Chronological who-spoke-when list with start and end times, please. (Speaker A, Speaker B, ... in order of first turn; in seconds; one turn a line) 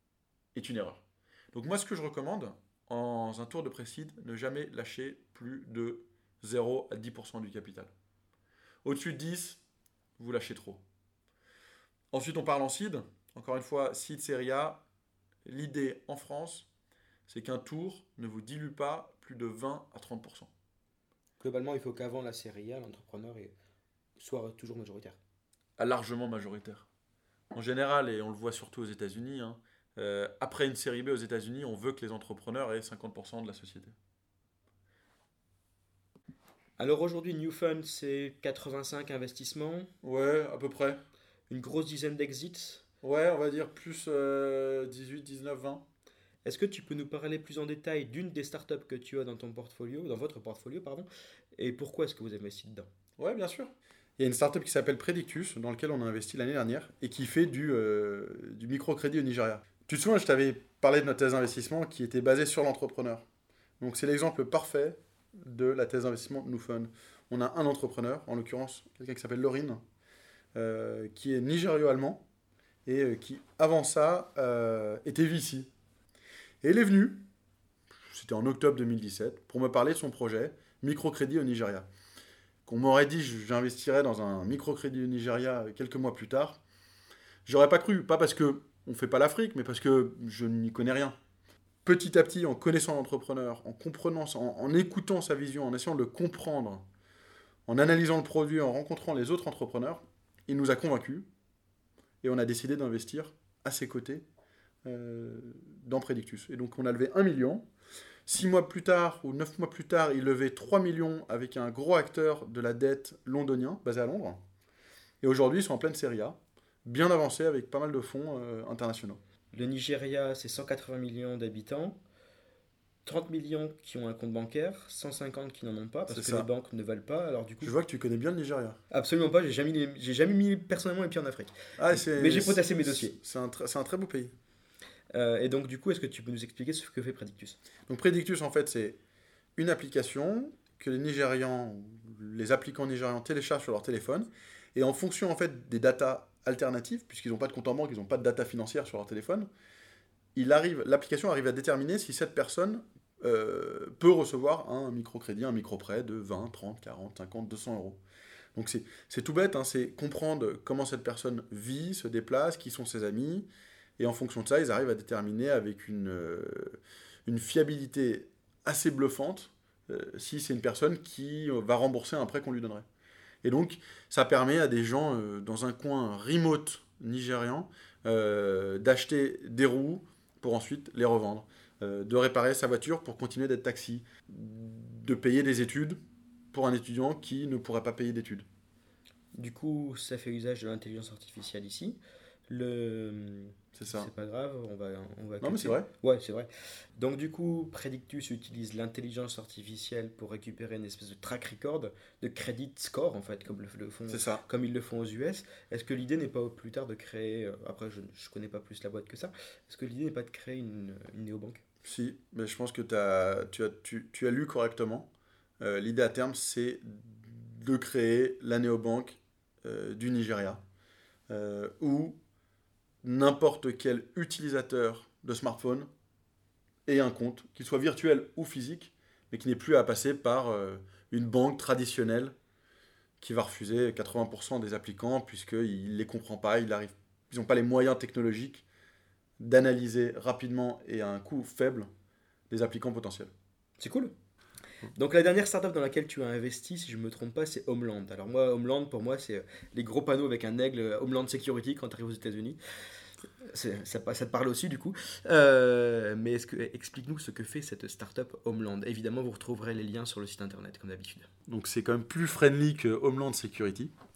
Speaker A: 0.5-7.9
Speaker A: 8.8-9.6
Speaker A: 10.2-10.8
Speaker A: 12.1-14.8
Speaker A: 15.4-16.7
Speaker A: 17.3-20.5
Speaker B: 21.4-23.5
Speaker B: 24.2-25.2
Speaker A: 25.8-26.9
Speaker A: 27.5-33.9
Speaker B: 36.8-39.9
Speaker A: 40.0-41.0
Speaker B: 41.5-42.8
Speaker A: 43.0-45.9
Speaker B: 46.4-52.9
Speaker A: 53.2-63.2
Speaker A: 63.8-69.8
Speaker A: 70.5-72.2
Speaker A: 72.8-75.7
Speaker A: 76.6-77.3
Speaker A: 78.0-81.9
Speaker A: 82.7-86.6
Speaker A: 87.4-91.2
Speaker A: 91.8-96.8
Speaker A: 97.7-101.3
Speaker A: 102.2-104.2
Speaker A: 104.8-107.7
Speaker A: 108.3-114.4
Speaker A: 115.2-119.2
Speaker B: 119.5-122.0
Speaker B: 123.0-127.7
Speaker A: 126.1-126.5
Speaker A: 127.6-128.8
Speaker B: 128.9-133.2
Speaker A: 131.8-134.3
Speaker B: 135.1-137.6
Speaker A: 137.9-139.0
Speaker A: 139.6-149.5
Speaker A: 150.3-158.0
Speaker A: 158.5-172.9
Speaker A: 173.4-186.0
Speaker A: 186.5-188.4
Speaker B: 189.3-211.6
Speaker A: 193.7-194.1
Speaker A: 195.4-195.9
Speaker A: 204.1-204.4
Speaker A: 211.8-215.1
Speaker A: 215.6-220.6
Speaker A: 221.3-222.2
Speaker A: 223.0-225.9
Speaker A: 226.8-232.3
Speaker A: 233.2-238.6
Speaker A: 239.4-241.9
Speaker A: 242.5-243.3
Speaker B: 243.8-244.1
Speaker B: 244.9-252.6
Speaker B: 253.4-261.3
Speaker A: 261.5-263.9